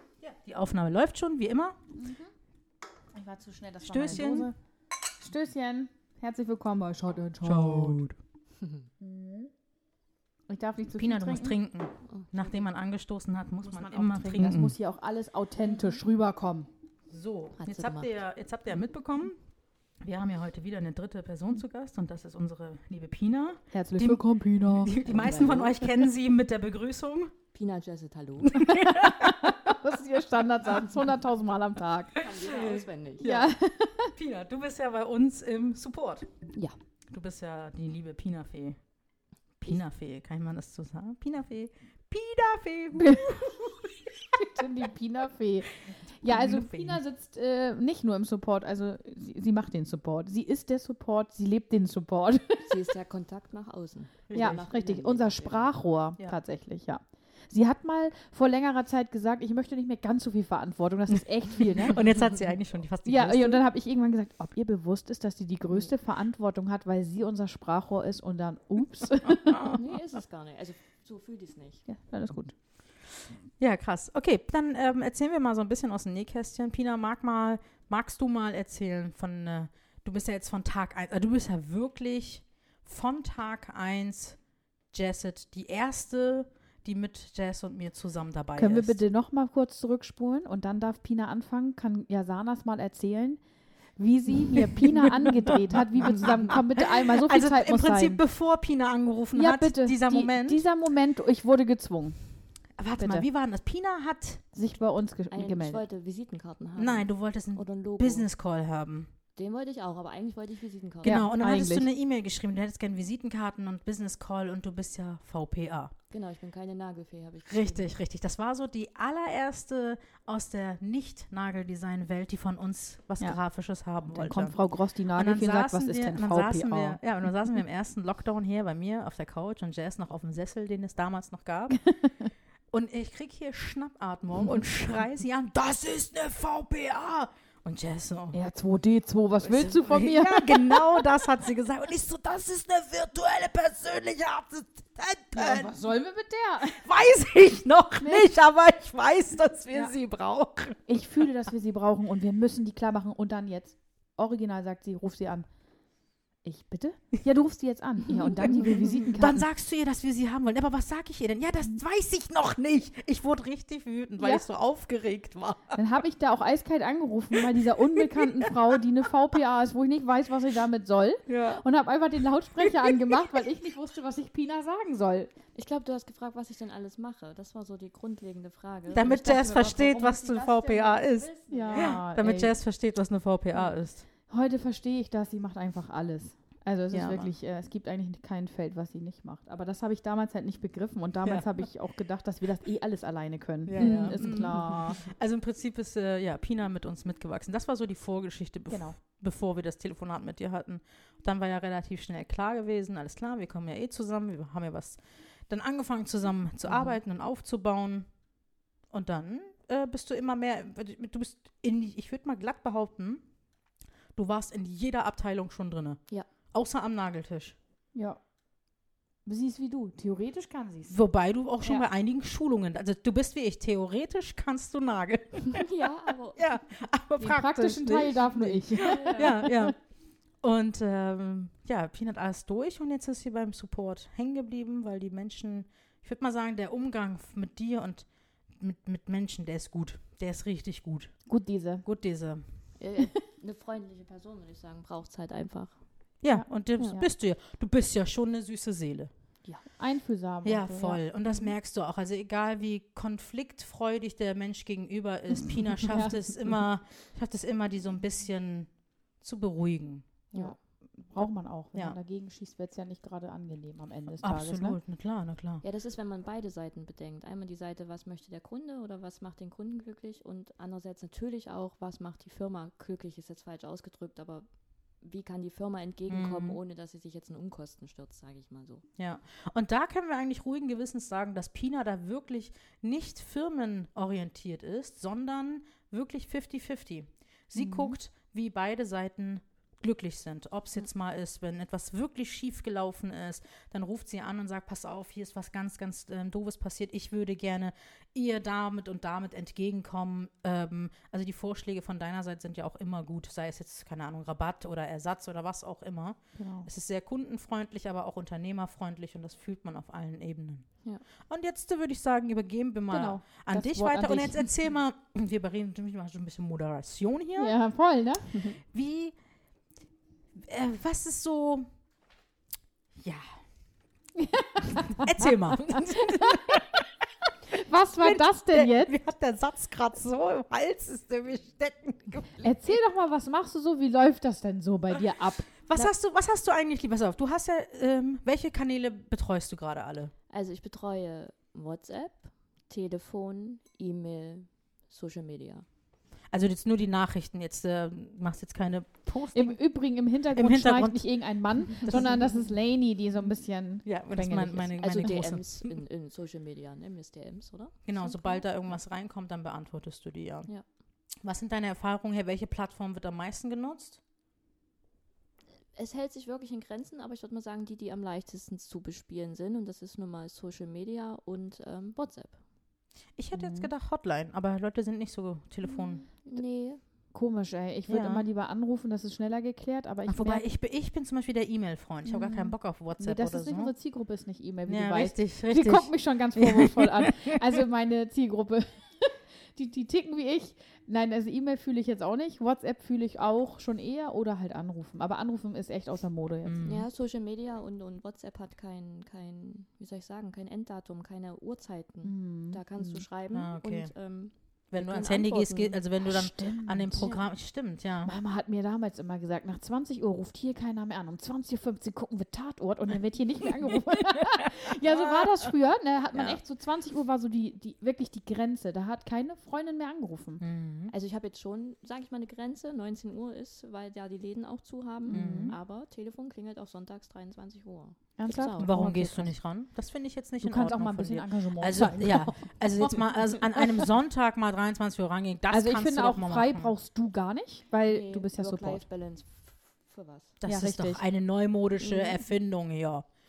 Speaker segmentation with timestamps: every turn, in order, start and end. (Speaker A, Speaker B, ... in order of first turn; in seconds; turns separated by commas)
Speaker A: 0.2-1.8, Speaker B: 1.9-2.3, Speaker B: 3.1-4.5, Speaker A: 3.8-4.5, Speaker B: 5.2-8.0, Speaker A: 7.4-8.2, Speaker B: 9.0-9.5, Speaker B: 10.5-11.6, Speaker A: 11.0-14.8, Speaker B: 13.6-16.7, Speaker A: 17.1-19.4, Speaker C: 17.6-18.2, Speaker A: 20.0-27.3, Speaker B: 23.7-25.1, Speaker C: 25.0-25.8, Speaker C: 27.5-28.6, Speaker A: 28.4-29.5, Speaker B: 28.6-32.2, Speaker C: 32.2-33.3, Speaker A: 32.2-33.5, Speaker B: 33.2-34.1, Speaker A: 34.1-36.3, Speaker A: 37.1-38.8, Speaker A: 39.6-43.8, Speaker B: 44.4-52.8, Speaker A: 46.2-47.0, Speaker C: 52.6-55.7, Speaker A: 54.3-54.6, Speaker B: 54.3-62.0, Speaker A: 61.8-63.6, Speaker B: 63.0-69.8, Speaker C: 69.7-71.8, Speaker B: 71.9-72.5, Speaker A: 73.6-84.4, Speaker A: 84.9-89.0, Speaker B: 88.5-93.4, Speaker B: 94.0-98.2, Speaker A: 96.0-100.6, Speaker B: 99.3-102.2, Speaker A: 102.8-104.4, Speaker B: 103.0-103.2, Speaker B: 104.5-105.8, Speaker C: 105.3-108.3, Speaker A: 106.8-109.1, Speaker C: 109.3-111.2, Speaker A: 111.0-115.9, Speaker B: 111.0-111.9, Speaker C: 116.1-117.9, Speaker A: 117.5-131.8, Speaker B: 124.0-127.0, Speaker A: 132.7-138.4, Speaker B: 138.3-141.1, Speaker A: 139.4-145.8, Speaker B: 145.3-146.8, Speaker A: 146.8-150.8, Speaker B: 148.0-148.3, Speaker B: 150.9-155.5, Speaker B: 156.4-159.5, Speaker A: 158.2-165.8, Speaker B: 164.2-164.4, Speaker B: 165.7-175.3, Speaker A: 171.3-171.6, Speaker A: 172.6-173.0, Speaker C: 175.5-182.1, Speaker A: 178.9-184.0, Speaker B: 181.5-182.6, Speaker B: 184.3-195.0, Speaker A: 186.9-187.3, Speaker A: 191.2-191.7, Speaker A: 193.7-208.1, Speaker C: 193.8-194.2, Speaker B: 198.7-199.0, Speaker A: 208.9-213.2, Speaker A: 214.2-217.6, Speaker B: 217.9-218.2, Speaker B: 219.2-221.0, Speaker A: 220.9-225.6, Speaker B: 221.6-221.9, Speaker C: 225.5-226.4, Speaker A: 226.3-229.7, Speaker B: 227.2-229.7, Speaker C: 228.8-229.4, Speaker A: 230.4-241.1, Speaker B: 241.3-241.8, Speaker A: 241.8-242.4, Speaker C: 242.8-245.8, Speaker A: 246.2-249.1, Speaker B: 246.3-247.1, Speaker B: 249.4-251.5, Speaker A: 250.4-260.1, Speaker B: 255.8-256.5, Speaker C: 260.3-260.6, Speaker B: 260.3-264.8, Speaker A: 264.2-265.6, Speaker C: 265.6-274.4, Speaker C: 275.0-278.8, Speaker A: 276.1-276.6, Speaker A: 279.0-310.6, Speaker B: 287.6-288.0, Speaker B: 306.4-306.7, Speaker A: 311.3-317.5, Speaker B: 312.9-314.5, Speaker B: 317.4-318.2, Speaker C: 318.3-318.6, Speaker A: 318.7-319.1, Speaker A: 320.4-321.6, Speaker B: 324.2-326.4, Speaker A: 324.9-326.7, Speaker B: 327.5-328.9, Speaker A: 328.0-332.5, Speaker B: 332.4-335.9, Speaker A: 335.7-340.1, Speaker C: 340.3-345.6, Speaker A: 346.3-349.6, Speaker B: 349.3-355.2, Speaker A: 350.3-352.2, Speaker A: 353.8-355.7, Speaker C: 354.8-358.6, Speaker A: 357.8-360.5, Speaker A: 361.2-364.0, Speaker C: 365.8-372.4, Speaker A: 373.2-376.2, Speaker B: 373.3-373.7, Speaker C: 376.2-376.8, Speaker B: 377.1-380.4, Speaker A: 377.9-378.2, Speaker A: 380.1-383.7, Speaker B: 382.0-396.8, Speaker A: 384.7-387.3, Speaker A: 396.4-396.9, Speaker C: 396.6-405.8, Speaker B: 402.0-403.0, Speaker A: 403.3-403.9, Speaker A: 404.7-408.1, Speaker B: 406.0-407.2, Speaker B: 408.0-420.4, Speaker A: 414.3-415.5, Speaker A: 416.1-416.4, Speaker A: 420.4-420.9, Speaker C: 420.9-428.9, Speaker B: 425.1-425.6, Speaker A: 425.1-425.6, Speaker B: 428.2-429.3, Speaker A: 428.6-436.7, Speaker B: 430.4-433.0, Speaker B: 435.5-438.8, Speaker C: 437.8-440.3, Speaker A: 440.4-443.1, Speaker B: 440.4-441.0, Speaker C: 441.8-442.2